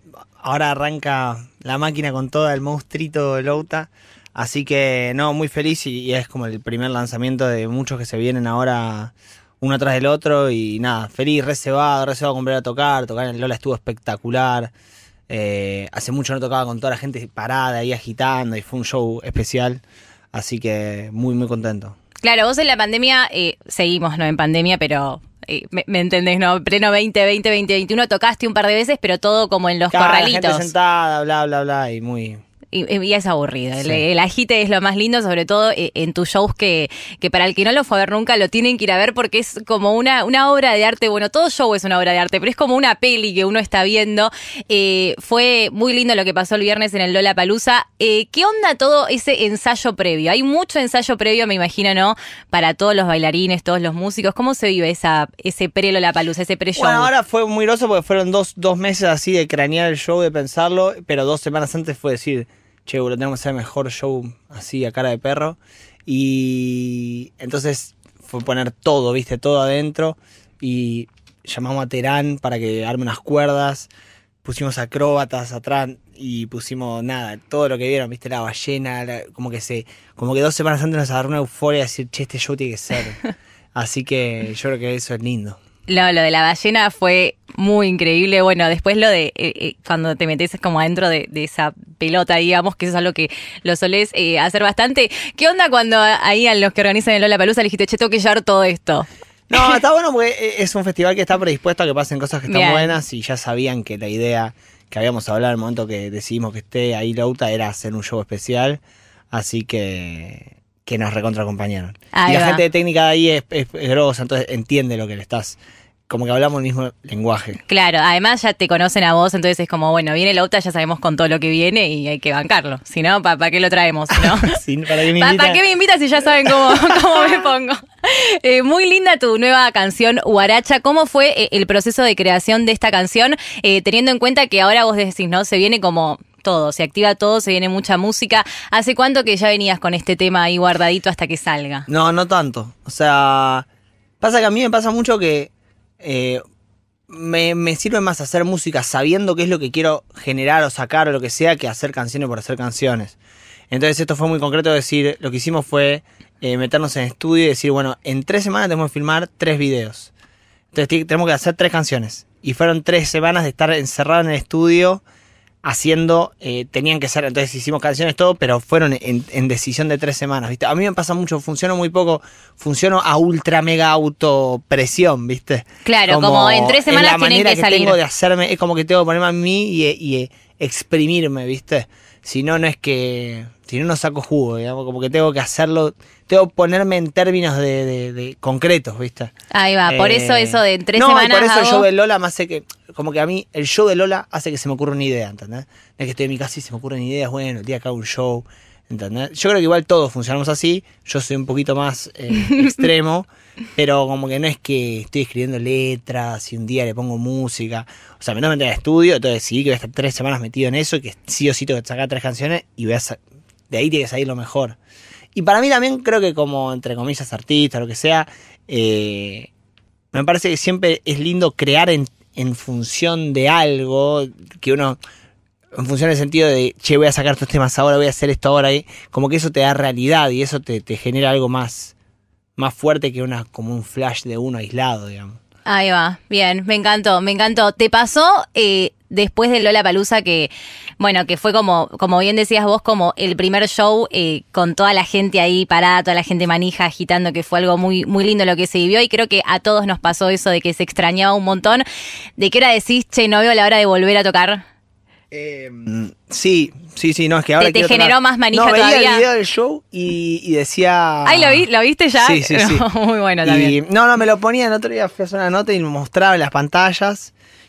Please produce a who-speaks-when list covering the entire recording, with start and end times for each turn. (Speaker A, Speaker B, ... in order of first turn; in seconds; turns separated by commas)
Speaker A: 0.4-14.7, Speaker A: 15.3-19.8, Speaker A: 20.3-21.9, Speaker B: 22.2-30.7, Speaker A: 29.9-32.4, Speaker B: 32.7-57.1, Speaker A: 33.8-34.0, Speaker A: 56.8-73.9, Speaker A: 74.4-85.6, Speaker B: 85.9-99.8, Speaker A: 99.5-108.8, Speaker B: 102.5-102.9, Speaker A: 109.3-115.6, Speaker B: 112.1-112.6, Speaker A: 116.1-117.6, Speaker B: 117.7-124.6, Speaker A: 124.1-125.6, Speaker B: 125.1-141.8, Speaker A: 126.4-127.4, Speaker A: 141.9-143.7, Speaker A: 144.2-146.4, Speaker A: 147.1-153.2, Speaker A: 153.7-160.1, Speaker A: 160.7-165.0, Speaker A: 165.6-189.3, Speaker B: 175.8-178.0, Speaker B: 189.5-191.8, Speaker A: 189.9-213.2, Speaker B: 202.3-202.9, Speaker A: 213.7-214.8, Speaker A: 215.3-219.5, Speaker A: 220.1-225.0, Speaker A: 225.8-231.9, Speaker A: 232.6-235.4, Speaker B: 235.7-251.8, Speaker B: 252.4-254.6, Speaker A: 255.3-261.6, Speaker B: 257.6-259.2, Speaker B: 261.2-263.8, Speaker A: 262.2-262.9, Speaker A: 263.4-267.3